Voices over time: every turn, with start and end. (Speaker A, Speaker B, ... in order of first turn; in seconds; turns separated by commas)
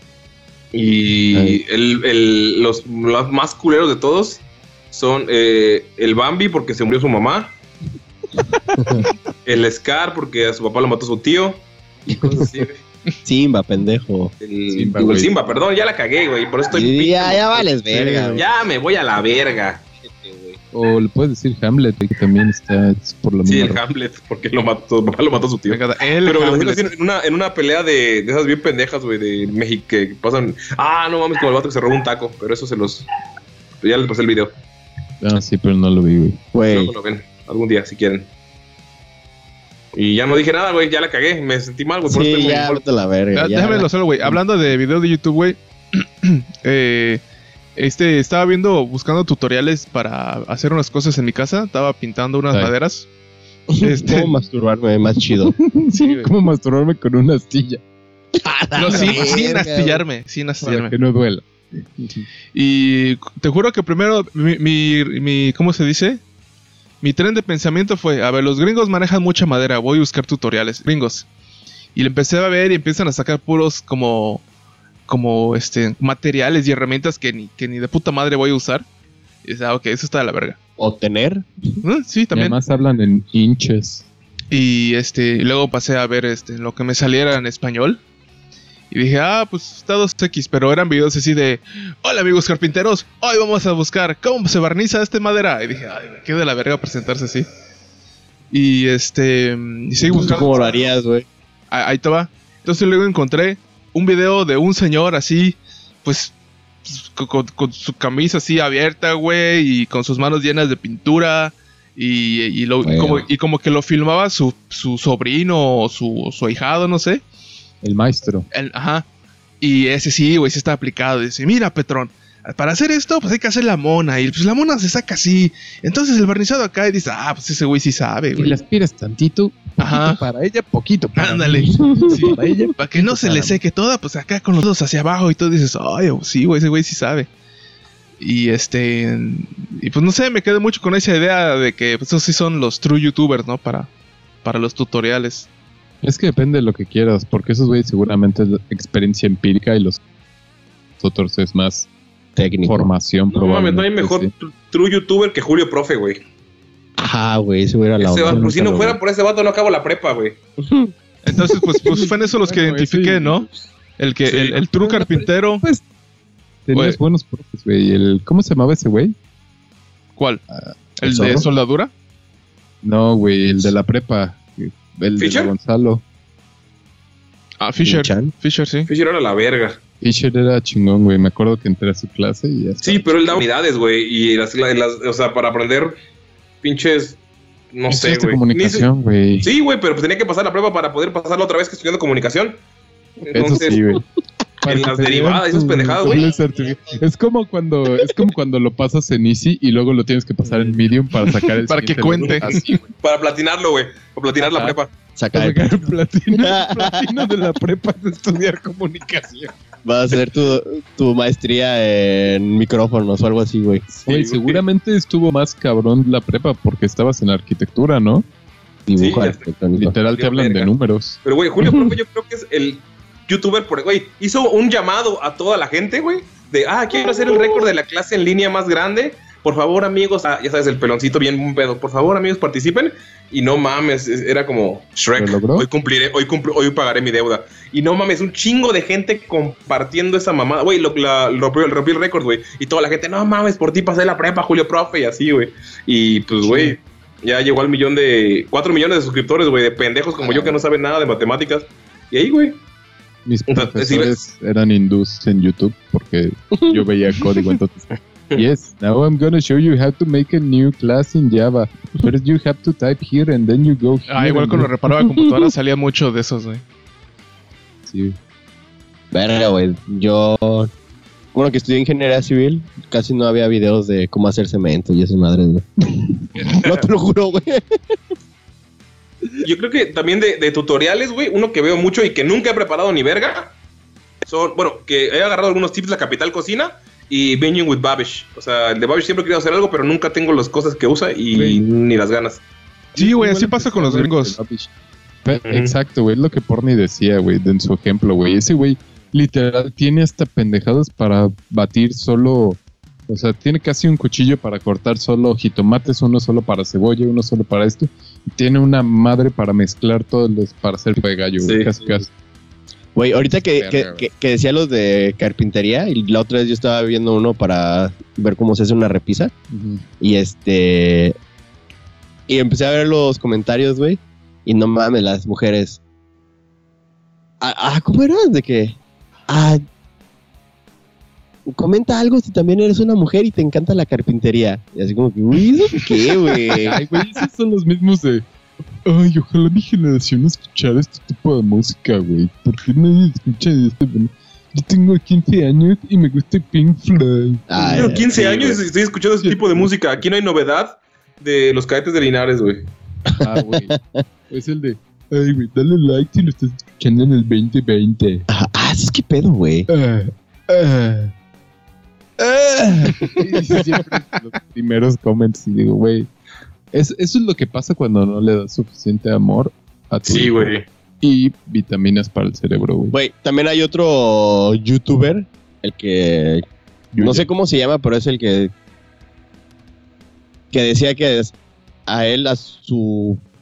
Speaker A: 0.7-7.5, Speaker B: 1.3-1.6, Speaker C: 8.8-9.1, Speaker A: 9.4-12.8, Speaker C: 12.1-12.5, Speaker C: 13.2-14.3, Speaker A: 14.4-17.7, Speaker B: 14.7-15.3, Speaker C: 16.7-18.4, Speaker B: 17.9-18.4, Speaker A: 18.4-19.8, Speaker C: 20.0-20.6, Speaker B: 20.7-23.8, Speaker A: 23.4-33.1, Speaker D: 25.7-26.9, Speaker A: 33.8-34.5, Speaker B: 35.2-36.4, Speaker C: 36.5-36.9, Speaker A: 36.7-38.3, Speaker A: 39.9-42.8, Speaker C: 42.0-43.9, Speaker D: 43.3-47.2, Speaker D: 47.8-53.1, Speaker C: 53.7-55.6, Speaker D: 53.8-54.3, Speaker B: 55.3-57.8, Speaker D: 55.9-56.2, Speaker C: 58.4-60.0, Speaker D: 58.8-60.9, Speaker B: 58.8-59.5, Speaker B: 60.6-62.2, Speaker D: 62.5-66.2, Speaker D: 67.0-71.3, Speaker D: 71.9-74.4, Speaker D: 75.1-78.8, Speaker D: 79.4-80.6, Speaker C: 80.8-81.8, Speaker D: 81.8-82.5, Speaker B: 82.3-84.1, Speaker D: 84.5-88.0, Speaker D: 88.9-97.5, Speaker D: 98.5-100.7, Speaker C: 100.1-101.3, Speaker A: 100.2-100.6, Speaker D: 101.7-106.3, Speaker D: 106.8-117.2, Speaker C: 112.8-113.3, Speaker B: 117.8-118.5, Speaker D: 118.5-119.0, Speaker D: 119.6-128.6, Speaker B: 128.3-133.6, Speaker D: 129.8-130.2, Speaker D: 131.1-137.3, Speaker C: 131.8-132.1, Speaker D: 138.2-143.9, Speaker D: 144.4-145.5, Speaker B: 146.0-150.0, Speaker B: 151.0-151.9, Speaker C: 152.3-152.9, Speaker B: 152.6-154.3, Speaker A: 153.3-156.2, Speaker C: 157.0-158.5, Speaker A: 158.0-160.4, Speaker B: 158.2-159.0, Speaker C: 160.6-161.9, Speaker D: 161.2-163.5, Speaker B: 161.8-163.5, Speaker D: 164.0-165.6, Speaker A: 164.2-164.6, Speaker B: 164.8-165.8, Speaker B: 166.7-169.2, Speaker D: 170.2-170.4, Speaker B: 170.5-171.4, Speaker D: 171.0-171.9, Speaker B: 172.8-176.0, Speaker A: 175.2-175.5, Speaker D: 177.6-178.9, Speaker C: 177.8-178.3, Speaker A: 178.9-179.8, Speaker B: 180.0-183.4, Speaker A: 182.8-185.9, Speaker A: 186.6-187.2, Speaker A: 187.7-188.9, Speaker B: 187.9-189.5, Speaker A: 189.4-192.6, Speaker A: 193.2-193.8, Speaker B: 193.3-194.0, Speaker B: 194.6-202.8, Speaker A: 194.7-196.3, Speaker C: 196.1-196.8, Speaker D: 201.3-202.8, Speaker A: 203.0-204.9, Speaker B: 204.4-204.8, Speaker C: 205.2-207.0, Speaker B: 205.3-209.5, Speaker C: 209.8-213.8, Speaker B: 213.9-218.2, Speaker A: 214.0-214.6, Speaker C: 218.9-219.9, Speaker A: 218.9-219.5, Speaker B: 219.8-221.2, Speaker A: 220.1-220.7, Speaker A: 221.2-252.6, Speaker C: 221.6-221.9, Speaker B: 235.2-235.7, Speaker B: 246.4-246.8, Speaker C: 250.2-250.6, Speaker B: 253.2-264.7, Speaker A: 253.5-254.2, Speaker D: 264.1-266.6, Speaker B: 267.9-268.2, Speaker C: 269.1-270.7, Speaker C: 271.3-275.6, Speaker C: 276.4-277.8, Speaker A: 279.4-283.5, Speaker A: 284.2-292.4, Speaker B: 291.3-291.6, Speaker B: 292.9-294.7, Speaker D: 292.9-294.4, Speaker B: 295.2-312.1, Speaker A: 295.4-295.7, Speaker A: 311.4-311.7, Speaker C: 312.9-319.3, Speaker B: 313.5-314.1, Speaker B: 319.5-319.8, Speaker C: 320.0-321.1, Speaker C: 322.3-325.8, Speaker C: 327.4-328.8, Speaker C: 329.3-329.6, Speaker C: 331.5-336.8, Speaker B: 336.7-338.2, Speaker B: 338.9-348.4, Speaker C: 347.5-348.6, Speaker A: 347.7-352.6, Speaker B: 349.2-349.7, Speaker C: 353.1-354.0, Speaker B: 353.2-353.7, Speaker B: 354.3-358.2, Speaker C: 358.3-359.7, Speaker B: 359.7-361.1, Speaker B: 362.2-366.1, Speaker B: 366.7-372.9, Speaker A: 370.1-370.6, Speaker C: 372.9-376.4, Speaker B: 376.9-377.3, Speaker C: 377.0-378.5, Speaker C: 380.5-381.3, Speaker C: 381.9-383.2